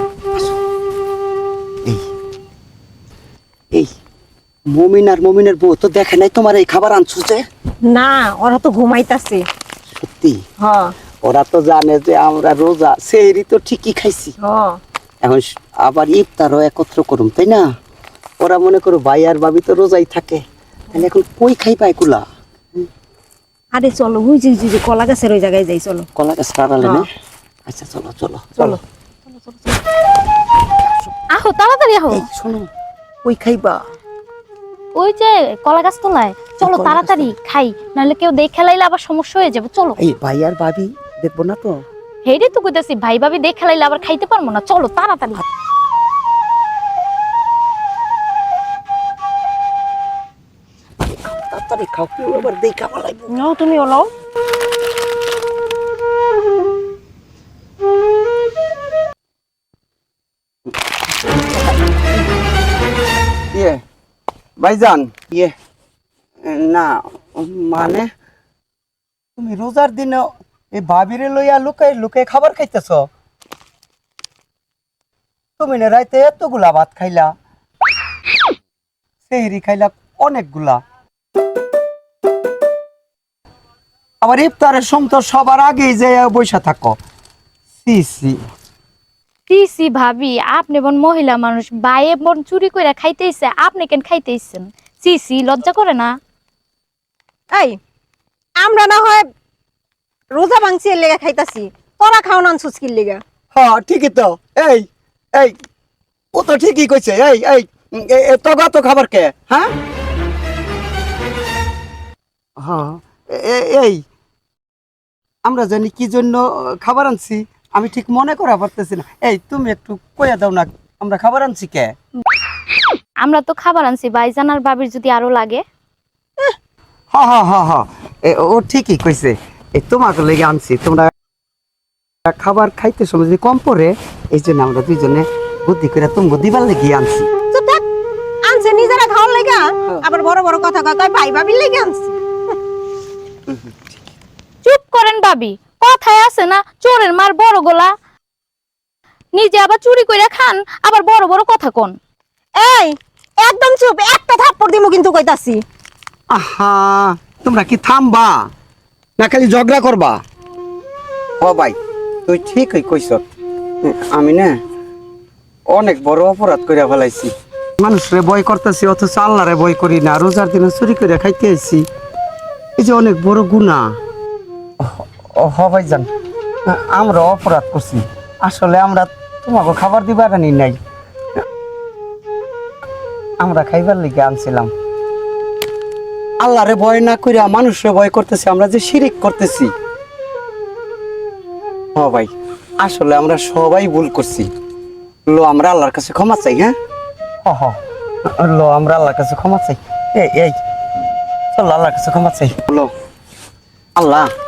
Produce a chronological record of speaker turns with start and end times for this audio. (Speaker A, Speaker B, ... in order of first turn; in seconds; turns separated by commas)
Speaker A: 4.7-7.4, Speaker B: 7.9-9.4, Speaker A: 9.9-10.4, Speaker B: 10.6-10.9, Speaker A: 11.2-14.3, Speaker B: 14.4-14.8, Speaker A: 15.2-17.7, Speaker A: 18.4-22.9, Speaker B: 23.7-26.1, Speaker A: 26.1-27.1, Speaker A: 27.7-28.8, Speaker C: 31.3-32.2, Speaker A: 32.1-32.7, Speaker A: 33.2-33.8, Speaker C: 35.0-40.0, Speaker A: 36.6-37.3, Speaker A: 40.0-41.8, Speaker C: 42.2-45.4, Speaker A: 51.0-53.4, Speaker B: 53.3-54.1, Speaker A: 63.5-63.8, Speaker A: 64.6-65.5, Speaker A: 66.4-68.1, Speaker A: 69.4-73.1, Speaker A: 75.6-77.3, Speaker A: 79.3-80.8, Speaker A: 84.2-87.0, Speaker A: 87.8-88.3, Speaker C: 89.5-96.1, Speaker B: 98.6-99.2, Speaker B: 100.3-103.2, Speaker A: 103.5-105.5, Speaker A: 106.3-109.7, Speaker A: 112.6-114.0, Speaker A: 115.5-121.9, Speaker C: 123.2-125.6, Speaker A: 127.1-131.1, Speaker A: 132.2-137.3, Speaker B: 137.5-137.8, Speaker B: 138.5-142.2, Speaker A: 143.5-143.9, Speaker C: 144.6-147.9, Speaker C: 149.3-151.9, Speaker B: 152.6-155.6, Speaker A: 156.3-158.5, Speaker A: 159.2-160.2, Speaker A: 161.4-163.2, Speaker A: 163.8-164.6, Speaker A: 165.7-171.8, Speaker A: 172.8-173.9, Speaker A: 174.8-176.1, Speaker A: 176.7-180.8, Speaker A: 183.4-184.7, Speaker A: 186.4-189.7, Speaker A: 192.0-194.5, Speaker A: 195.3-196.7, Speaker A: 197.4-197.8, Speaker A: 198.3-200.6, Speaker A: 201.5-202.9, Speaker A: 204.0-204.3